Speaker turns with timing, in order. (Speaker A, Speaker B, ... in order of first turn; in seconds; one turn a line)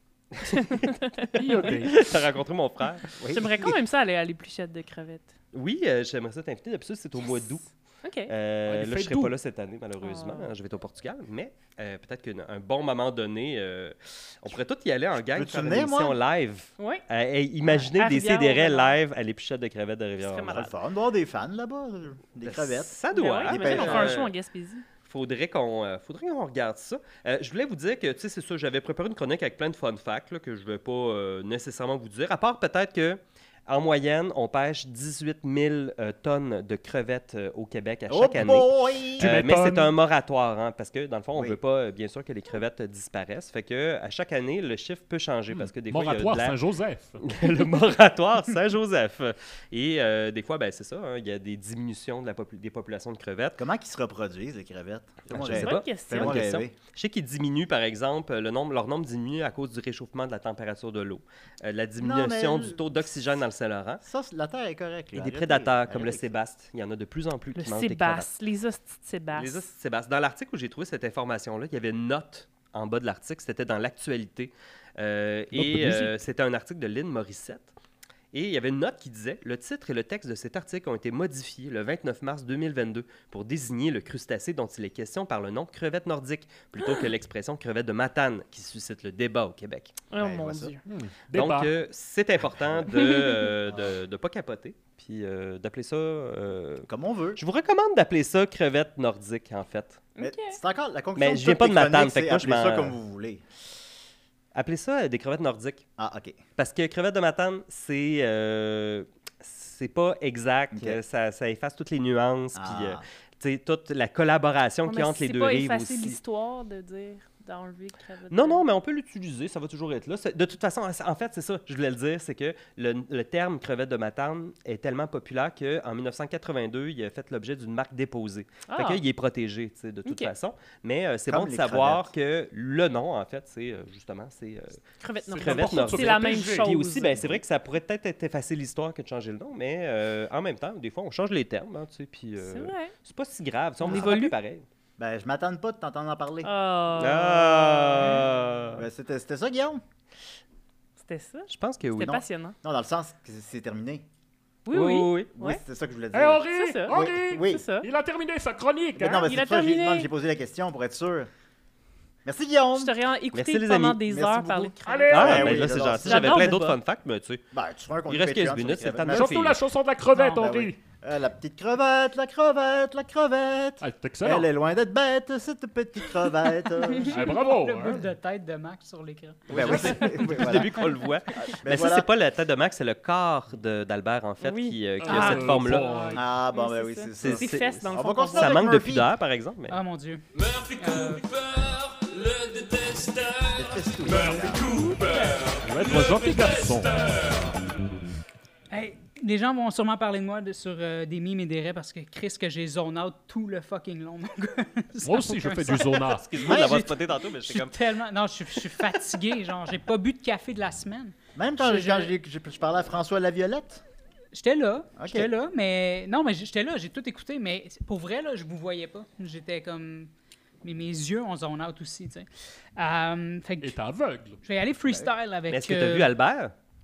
Speaker A: 0.4-0.8
Speaker B: 0.6-1.6
Speaker C: 1.4-2.0
Speaker A: 1.8-3.1
Speaker D: 3.2-3.7
Speaker B: 3.3-5.3
Speaker A: 5.5-7.7
Speaker B: 8.0-8.3
Speaker A: 8.3-20.7
Speaker C: 8.7-9.3
Speaker B: 10.0-10.5
Speaker D: 15.3-16.2
Speaker B: 17.9-18.9
Speaker B: 20.2-20.7
Speaker D: 20.5-22.9
Speaker A: 22.4-24.3
Speaker B: 23.1-24.8
Speaker D: 23.4-24.2
Speaker A: 25.0-46.6
Speaker D: 38.1-39.3
Speaker C: 39.2-39.9
Speaker C: 45.9-47.2
Speaker A: 47.2-53.6
Speaker D: 53.6-56.7
Speaker A: 55.3-64.0
Speaker B: 55.5-56.5
Speaker D: 62.0-63.0
Speaker D: 64.0-66.3
Speaker A: 65.1-68.3
Speaker B: 67.5-69.6
Speaker A: 69.3-77.7
Speaker C: 75.5-76.1
Speaker A: 78.3-89.9
Speaker B: 90.1-90.8
Speaker D: 90.2-90.7
Speaker C: 90.8-91.7
Speaker A: 91.3-100.0
Speaker B: 92.9-93.3
Speaker D: 93.7-93.9
Speaker D: 96.9-97.4
Speaker B: 100.2-100.6
Speaker D: 100.2-103.4
Speaker A: 101.2-103.0
Speaker A: 104.5-105.8
Speaker D: 106.0-106.4
Speaker A: 106.5-116.2
Speaker D: 110.7-111.0
Speaker D: 112.5-113.0
Speaker B: 114.8-118.6
Speaker A: 118.3-134.8
Speaker B: 128.7-129.0
Speaker B: 130.1-130.3
Speaker D: 131.3-132.1
Speaker B: 135.0-137.3
Speaker C: 135.3-136.7
Speaker A: 135.4-144.6
Speaker B: 142.4-142.9
Speaker B: 143.8-144.3
Speaker D: 145.0-146.5
Speaker B: 146.4-148.2
Speaker A: 147.0-148.8
Speaker D: 148.8-149.8
Speaker B: 151.0-152.6
Speaker A: 151.5-152.2
Speaker D: 152.0-154.0
Speaker B: 154.7-155.6
Speaker A: 154.7-155.3
Speaker D: 155.3-157.6
Speaker C: 156.1-159.3
Speaker B: 156.5-157.9
Speaker D: 158.9-161.3
Speaker B: 159.2-160.1
Speaker D: 162.2-162.9
Speaker B: 162.8-165.5
Speaker A: 163.3-164.0
Speaker D: 164.1-166.6
Speaker C: 164.8-165.6
Speaker A: 165.1-167.4
Speaker B: 166.1-166.7
Speaker D: 167.5-169.4
Speaker A: 168.1-169.6
Speaker C: 169.1-170.8
Speaker E: 170.2-170.4
Speaker D: 170.3-177.2
Speaker C: 173.8-174.5
Speaker E: 177.1-179.7
Speaker C: 177.1-178.0
Speaker D: 179.5-180.9
Speaker A: 179.5-185.9
Speaker D: 181.4-182.1
Speaker B: 184.4-188.6
Speaker C: 185.0-186.2
Speaker D: 186.1-189.1
Speaker A: 187.2-189.8
Speaker E: 189.7-190.2
Speaker F: 190.4-197.5
Speaker E: 190.8-191.2
Speaker D: 193.5-194.7
Speaker C: 195.6-196.9
Speaker E: 198.7-212.1
Speaker C: 205.0-206.2
Speaker A: 206.0-207.9
Speaker D: 211.3-213.8
Speaker E: 214.3-220.1
Speaker D: 215.0-215.3
Speaker E: 220.6-223.8
Speaker C: 223.6-224.4
Speaker E: 224.4-226.1
Speaker A: 225.5-226.5